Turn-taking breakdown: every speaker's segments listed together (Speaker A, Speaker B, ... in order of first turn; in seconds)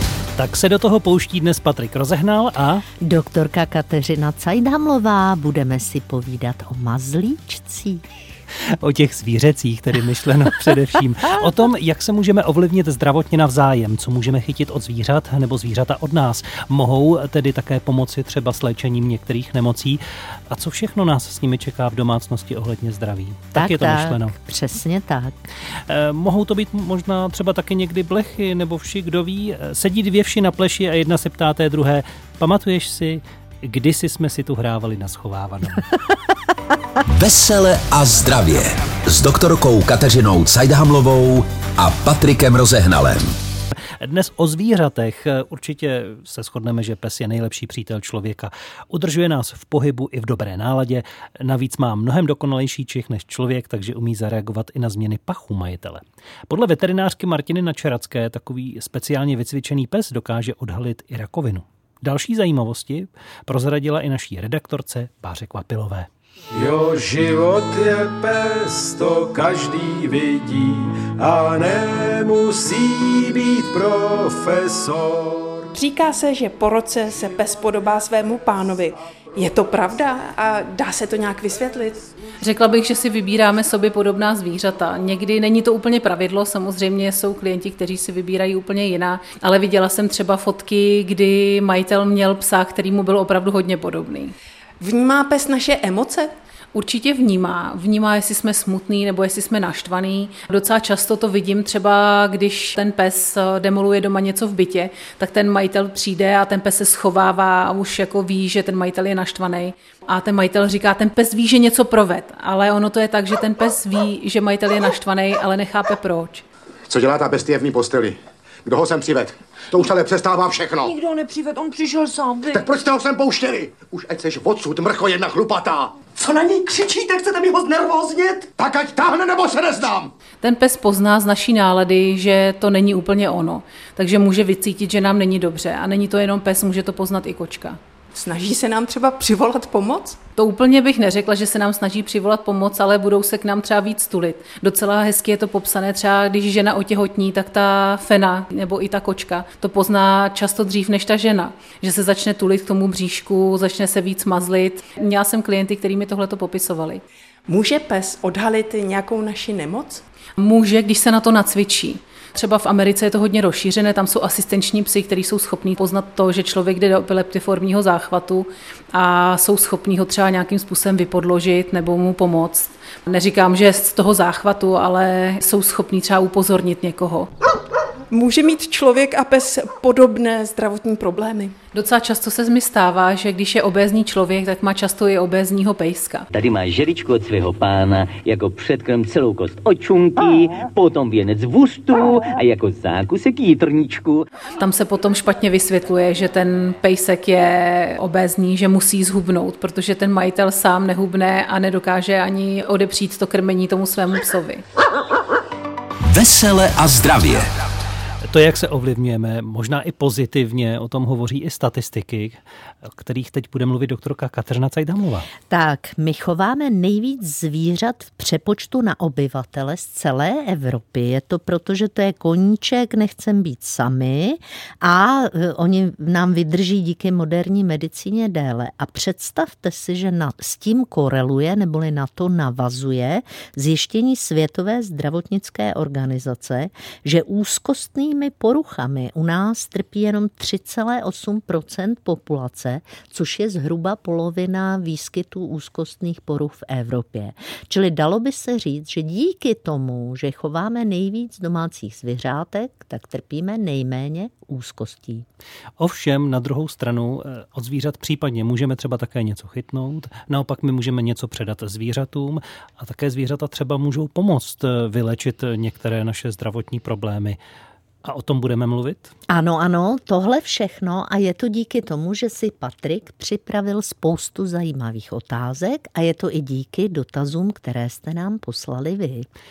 Speaker A: 0.4-2.8, 8.8-24.3, 25.9-35.9, 44.0-66.1, 208.3-215.3, 255.8-267.4, 268.0-269.1
Speaker B: 3.0-8.1, 23.5-25.4, 215.5-255.2, 269.3-279.3
Speaker C: 37.1-43.3, 206.1-207.5
Speaker D: 66.5-75.7
Speaker E: 75.7-82.0, 94.8-96.3, 138.1-140.2, 157.5-160.0, 178.1-181.5
Speaker F: 82.4-94.3, 96.7-116.4, 130.4-137.8, 140.4-157.0, 160.4-177.3, 181.7-186.3, 194.6-204.6
Speaker G: 116.9-121.0, 122.5-130.1
Speaker H: 120.8-122.6, 126.2-128.4
Speaker I: 186.3-194.2